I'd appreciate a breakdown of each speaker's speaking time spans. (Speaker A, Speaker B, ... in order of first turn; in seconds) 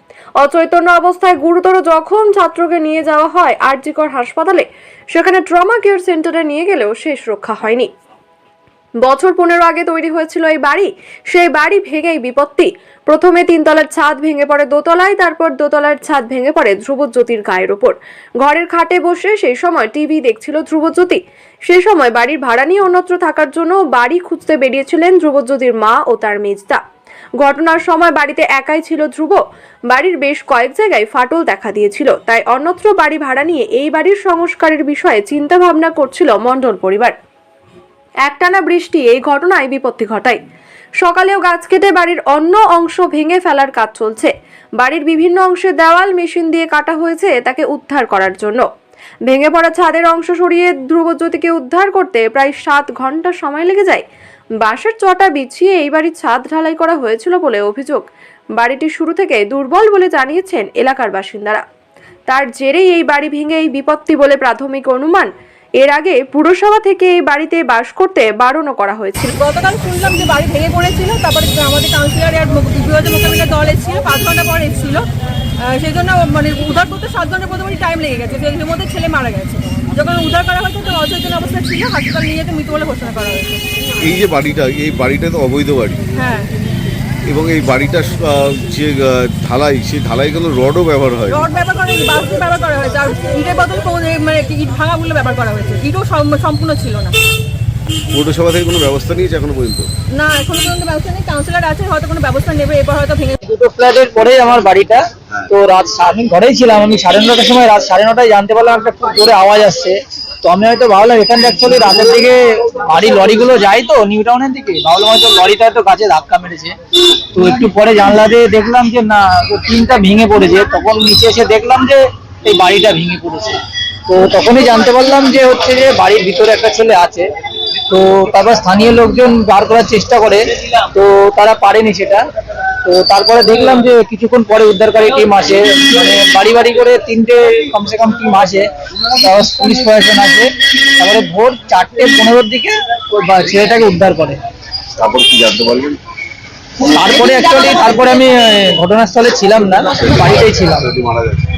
Speaker A: 0.4-7.9, 9.0-26.8, 27.4-37.1, 38.2-40.4, 41.0-48.6, 49.2-54.0, 54.6-58.0, 58.6-61.6, 62.3-65.3, 65.8-69.3
Speaker B: 69.3-75.0, 75.6-83.6, 86.1-86.5, 91.3-97.1, 100.1-103.4
Speaker C: 84.0-86.0, 87.2-91.5, 98.1-99.9, 144.9-145.9, 149.9-151.4
Speaker D: 103.4-116.7, 117.3-127.3, 127.9-132.2, 132.8-144.4, 146.8-151.0